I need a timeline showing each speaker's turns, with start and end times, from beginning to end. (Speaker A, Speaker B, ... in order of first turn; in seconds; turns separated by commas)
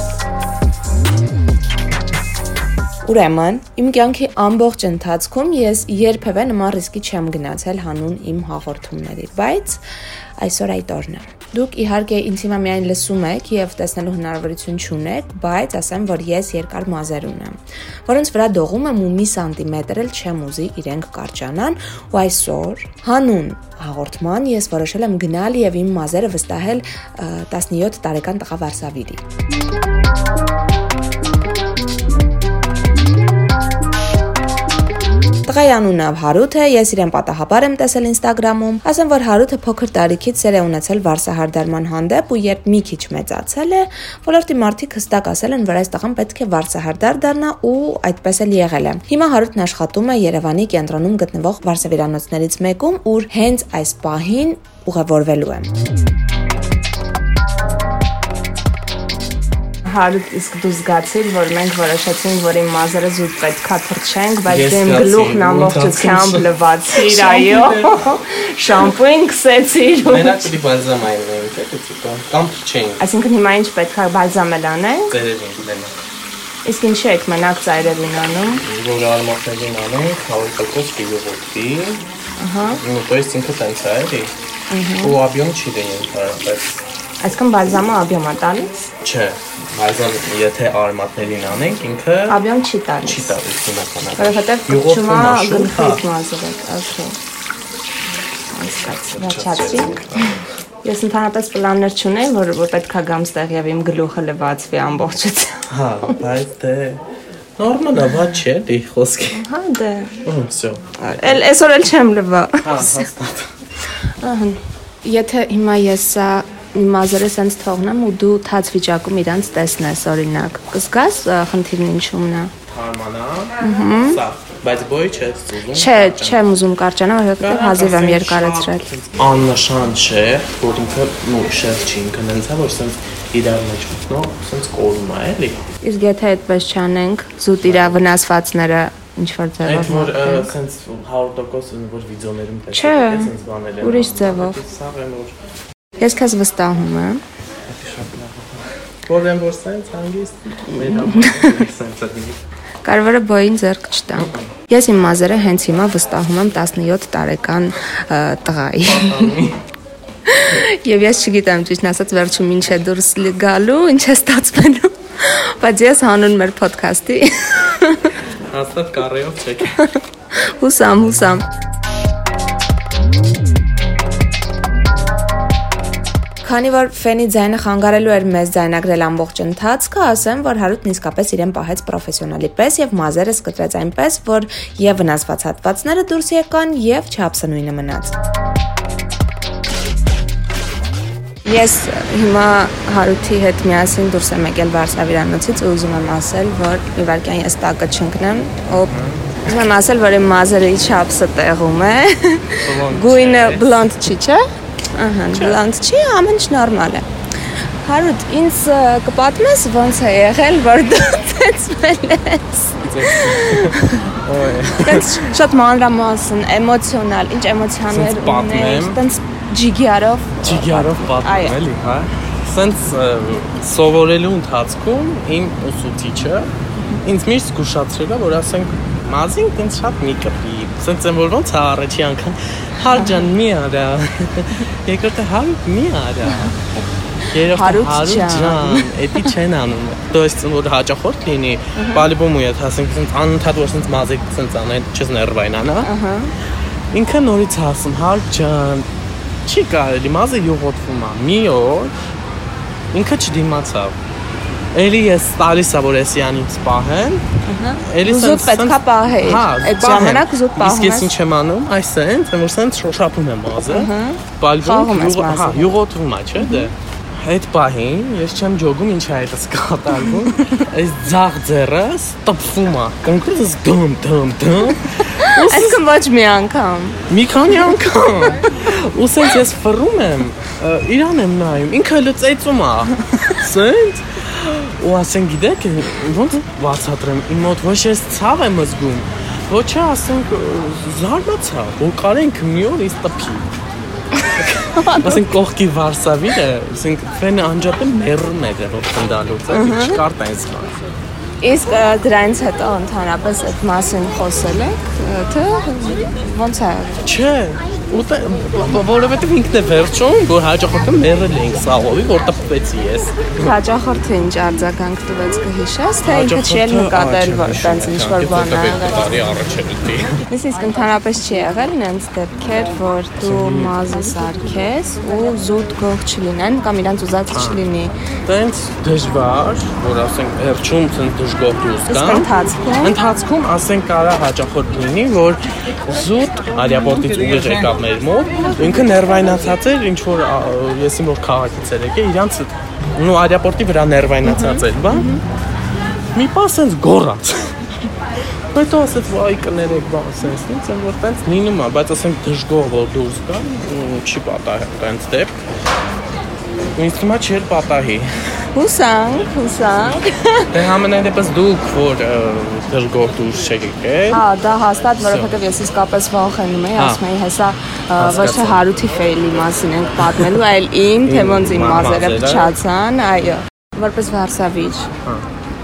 Speaker A: 3.0-9.8, Speaker A: 10.4-29.2, Speaker A: 35.5-55.7, Speaker A: 59.9-70.5, Speaker B: 64.5-68.0, Speaker B: 70.0-73.0, Speaker A: 73.0-75.2, Speaker B: 75.1-76.0, Speaker A: 76.7-78.7, Speaker B: 78.6-82.0, Speaker A: 82.4-82.8, Speaker B: 82.7-84.3, Speaker A: 84.7-85.2, Speaker B: 85.0-86.8, Speaker A: 87.2-88.8, Speaker B: 89.0-92.4, Speaker A: 92.3-93.3, Speaker B: 93.0-96.0, Speaker A: 94.2-97.2, Speaker A: 98.5-106.2, Speaker B: 99.1-100.4, Speaker B: 105.7-107.0, Speaker B: 107.6-109.4, Speaker A: 109.3-110.2, Speaker B: 110.2-111.4, Speaker A: 111.0-113.1, Speaker B: 112.6-113.5, Speaker A: 114.2-122.5, Speaker B: 122.7-126.5, Speaker A: 123.6-124.2, Speaker A: 125.7-128.9, Speaker B: 127.4-135.6, Speaker A: 135.8-140.5, Speaker B: 137.6-138.1, Speaker B: 139.6-145.4, Speaker A: 142.7-144.6, Speaker A: 146.0-147.2, Speaker B: 147.7-152.4, Speaker A: 150.7-151.6, Speaker A: 152.8-159.4, Speaker B: 154.2-154.5, Speaker B: 158.8-159.6, Speaker A: 160.3-168.2, Speaker B: 168.5-169.8, Speaker A: 169.7-171.5, Speaker A: 176.4-188.2, Speaker A: 191.4-198.9, Speaker B: 198.8-199.4, Speaker A: 199.4-214.2, Speaker B: 202.6-204.1, Speaker B: 205.3-205.6, Speaker B: 212.8-215.1, Speaker A: 214.8-221.6, Speaker B: 217.9-219.0, Speaker B: 220.4-226.5, Speaker B: 227.0-236.6, Speaker A: 232.9-233.3, Speaker A: 236.3-236.5, Speaker B: 237.3-245.9, Speaker A: 237.3-239.3, Speaker A: 241.8-242.1, Speaker A: 245.8-246.3, Speaker B: 246.9-248.9, Speaker B: 249.5-251.9, Speaker B: 252.9-254.0, Speaker B: 254.7-257.2, Speaker A: 257.5-261.2, Speaker B: 257.8-275.8, Speaker A: 263.7-265.8, Speaker A: 266.4-266.7, Speaker A: 270.1-270.6, Speaker A: 274.6-277.0, Speaker B: 277.1-293.5, Speaker A: 278.3-278.6, Speaker A: 294.2-295.2, Speaker B: 294.8-300.8, Speaker A: 299.5-300.0, Speaker A: 301.4-307.1, Speaker B: 307.0-313.5, Speaker A: 313.4-319.1, Speaker B: 316.0-320.2, Speaker A: 320.3-327.9, Speaker B: 323.2-323.8, Speaker B: 327.3-327.6, Speaker B: 328.2-332.3, Speaker A: 331.9-332.9, Speaker B: 332.8-345.1, Speaker A: 344.2-345.2, Speaker B: 346.1-347.6, Speaker B: 348.5-355.4, Speaker B: 356.8-358.1, Speaker A: 358.5-360.5, Speaker B: 360.5-364.2, Speaker A: 364.1-374.9, Speaker B: 365.0-365.4, Speaker B: 366.8-367.0, Speaker B: 368.0-368.7, Speaker B: 370.0-370.4, Speaker B: 371.1-372.5